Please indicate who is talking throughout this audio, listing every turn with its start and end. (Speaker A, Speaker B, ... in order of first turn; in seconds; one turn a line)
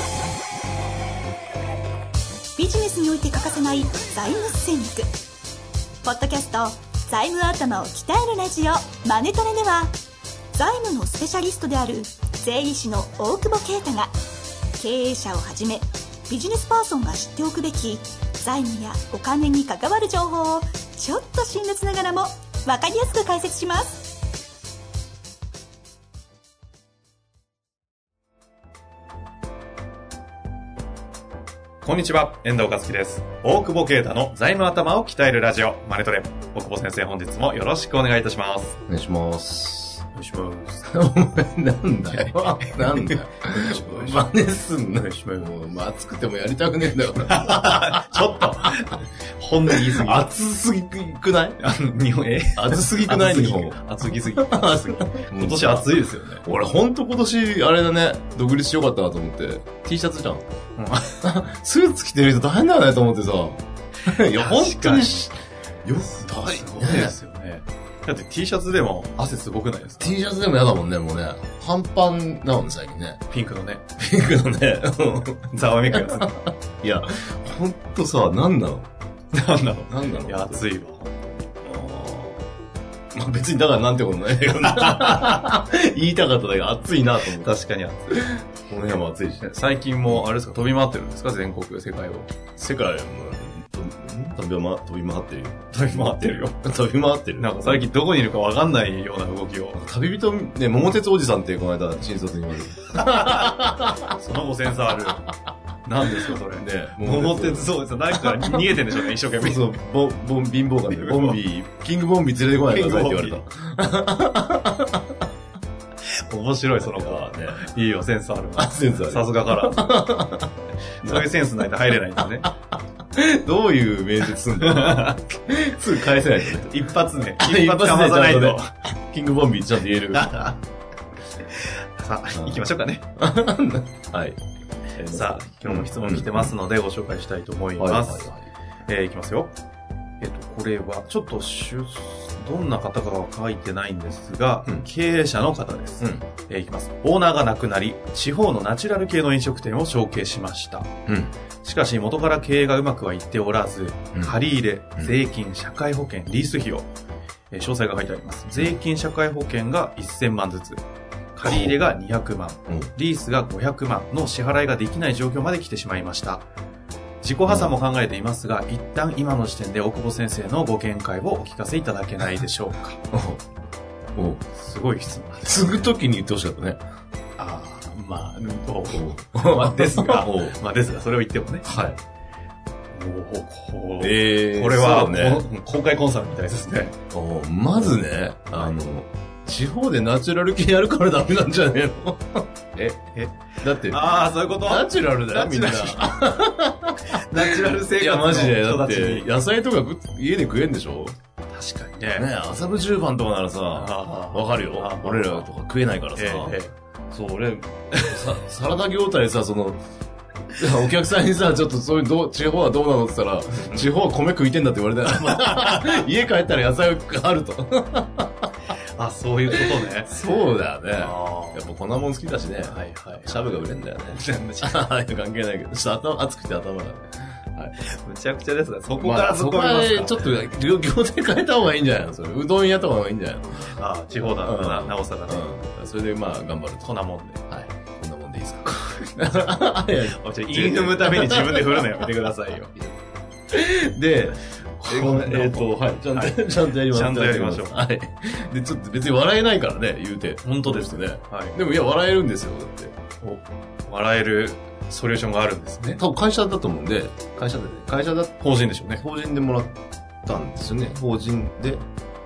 Speaker A: 2.6-5.1
Speaker A: 6.0-9.9
Speaker A: 10.5-14.1
Speaker A: 14.8-24.1
Speaker B: 31.8-38.8
Speaker C: 38.9-40.0
Speaker B: 40.1-40.9
Speaker C: 40.9-48.5
Speaker B: 42.2-44.4
Speaker B: 45.2-45.5
Speaker B: 47.2-50.3
Speaker C: 49.7-51.6
Speaker B: 51.6-56.4
Speaker C: 52.6-55.9
Speaker C: 56.4-60.5
Speaker B: 60.8-61.1
Speaker C: 61.1-67.2
Speaker B: 64.1-65.3
Speaker B: 66.1-70.2
Speaker C: 70.0-73.2
Speaker B: 73.3-73.8
Speaker C: 74.0-78.9
Speaker B: 75.5-76.3
Speaker B: 79.3-81.5
Speaker C: 79.9-80.6
Speaker C: 81.6-82.5
Speaker C: 83.1-87.5
Speaker B: 87.4-88.3
Speaker C: 88.1-89.5
Speaker B: 89.4-92.3
Speaker C: 92.6-97.9
Speaker B: 95.7-96.6
Speaker B: 97.4-99.8
Speaker C: 99.7-104.1
Speaker B: 103.0-105.2
Speaker B: 105.8-109.7
Speaker C: 106.0-108.8
Speaker C: 109.3-115.2
Speaker B: 110.9-111.4
Speaker B: 112.7-113.4
Speaker B: 116.3-120.0
Speaker C: 116.8-117.7
Speaker C: 118.5-121.3
Speaker B: 121.0-122.5
Speaker C: 122.2-122.5
Speaker C: 123.1-130.5
Speaker B: 124.6-125.2
Speaker B: 126.5-128.7
Speaker B: 130.2-130.6
Speaker B: 131.6-133.0
Speaker C: 132.3-132.7
Speaker C: 133.2-134.4
Speaker C: 135.0-136.6
Speaker B: 135.1-138.3
Speaker C: 137.8-138.5
Speaker B: 138.9-139.5
Speaker B: 140.2-150.9
Speaker C: 151.1-151.3
Speaker B: 151.6-156.9
Speaker B: 157.5-160.8
Speaker C: 158.6-158.8
Speaker B: 161.3-166.4
Speaker C: 161.4-161.8
Speaker B: 167.2-173.0
Speaker C: 167.5-167.7
Speaker C: 173.1-173.4
Speaker C: 174.2-174.4
Speaker B: 174.6-175.9
Speaker C: 175.4-176.8
Speaker B: 177.4-181.7
Speaker C: 178.9-180.6
Speaker C: 181.7-182.0
Speaker B: 182.9-187.0
Speaker C: 184.0-185.4
Speaker C: 187.1-193.1
Speaker B: 188.5-188.8
Speaker B: 193.2-196.1
Speaker C: 193.6-201.2
Speaker B: 197.1-199.3
Speaker B: 201.5-202.3
Speaker C: 202.2-206.6
Speaker B: 203.7-205.5
Speaker B: 206.2-206.7
Speaker C: 207.1-209.8
Speaker C: 210.5-218.5
Speaker B: 215.2-215.8
Speaker B: 219.0-220.1
Speaker C: 219.5-227.7
Speaker B: 221.0-221.7
Speaker B: 222.7-224.9
Speaker B: 227.8-230.5
Speaker C: 229.0-236.9
Speaker B: 233.7-235.5
Speaker B: 236.8-237.4
Speaker C: 237.5-242.1
Speaker B: 239.2-242.8
Speaker C: 243.5-252.9
Speaker B: 244.8-247.8
Speaker B: 250.4-251.6
Speaker B: 253.2-256.0
Speaker C: 256.0-261.9
Speaker B: 258.4-259.0